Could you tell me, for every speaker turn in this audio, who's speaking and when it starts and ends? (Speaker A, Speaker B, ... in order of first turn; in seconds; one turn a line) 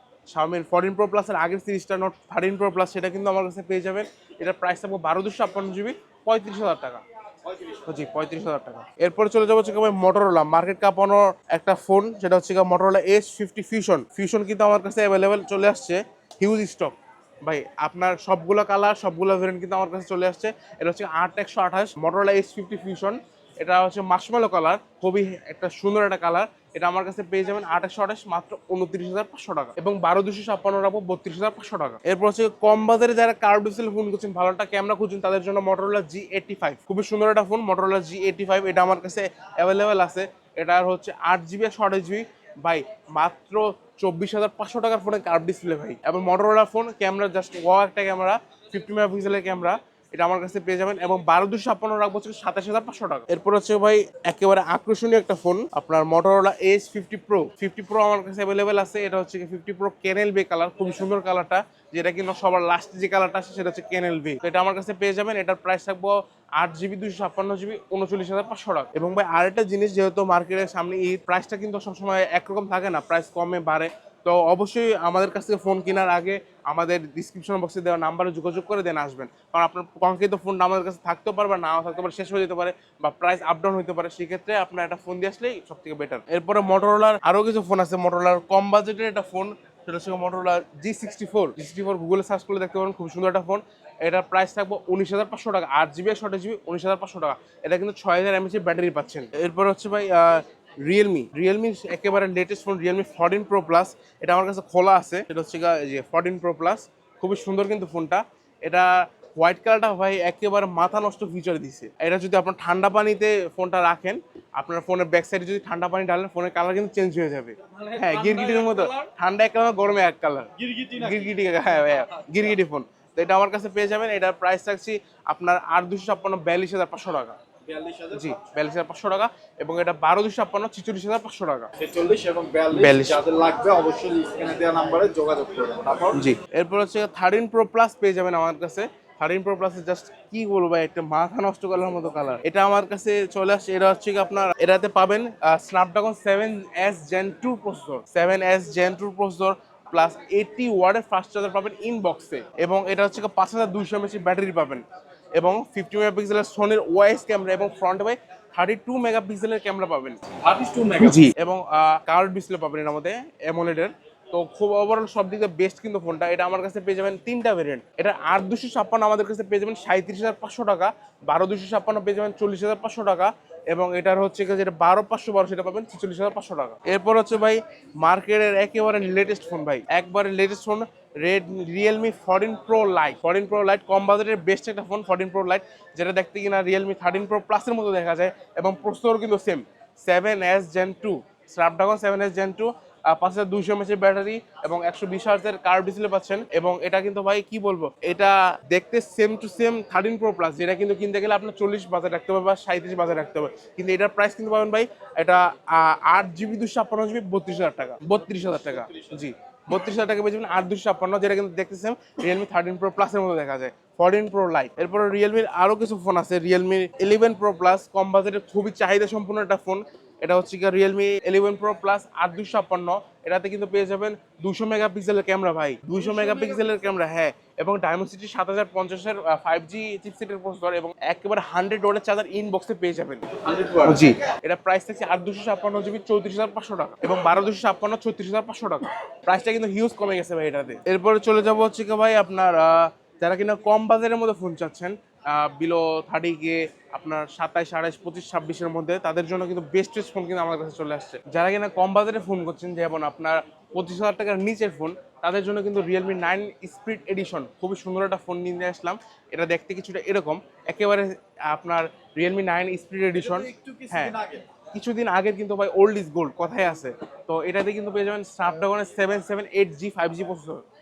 Speaker A: 0.3-7.0
Speaker B: 7.4-8.0
Speaker A: 7.9-127.3
Speaker B: 117.6-119.1
Speaker B: 120.6-122.5
Speaker B: 127.6-128.3
Speaker A: 128.1-131.7
Speaker B: 131.8-136.2
Speaker A: 132.7-133.2
Speaker A: 136.1-154.8
Speaker A: 155.3-160.2
Speaker B: 160.4-161.3
Speaker A: 161.0-233.2
Speaker B: 208.2-209.3
Speaker B: 225.9-226.6
Speaker B: 233.3-234.1
Speaker A: 233.8-264.1
Speaker B: 263.1-264.4
Speaker A: 264.7-270.6